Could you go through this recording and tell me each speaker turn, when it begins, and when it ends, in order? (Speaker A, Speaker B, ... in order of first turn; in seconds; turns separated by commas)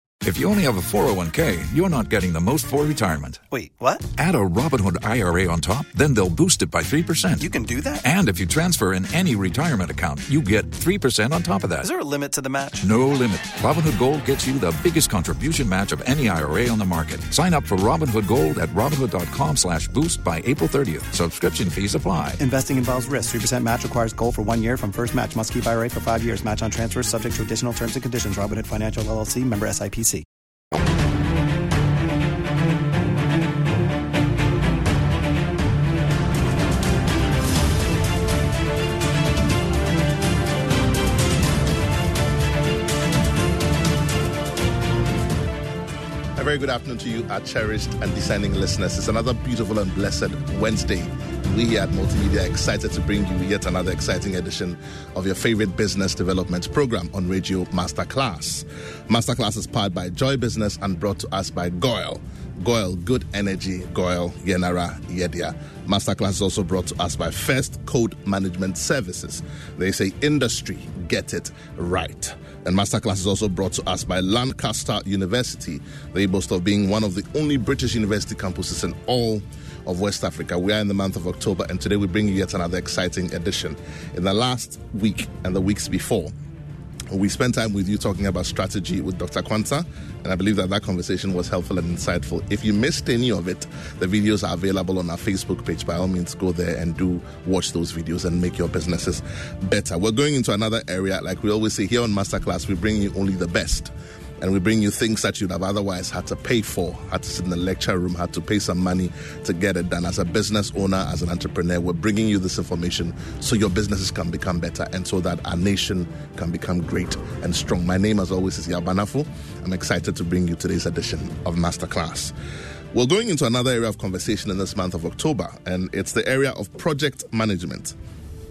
Speaker A: 0.2-3.4, Speaker B: 3.5-4.0, Speaker A: 4.1-7.5, Speaker B: 7.4-8.0, Speaker A: 8.0-11.9, Speaker B: 11.8-12.8, Speaker A: 12.8-22.4, Speaker B: 22.4-30.2, Speaker C: 46.4-86.3, Speaker C: 87.1-122.3, Speaker C: 122.9-128.0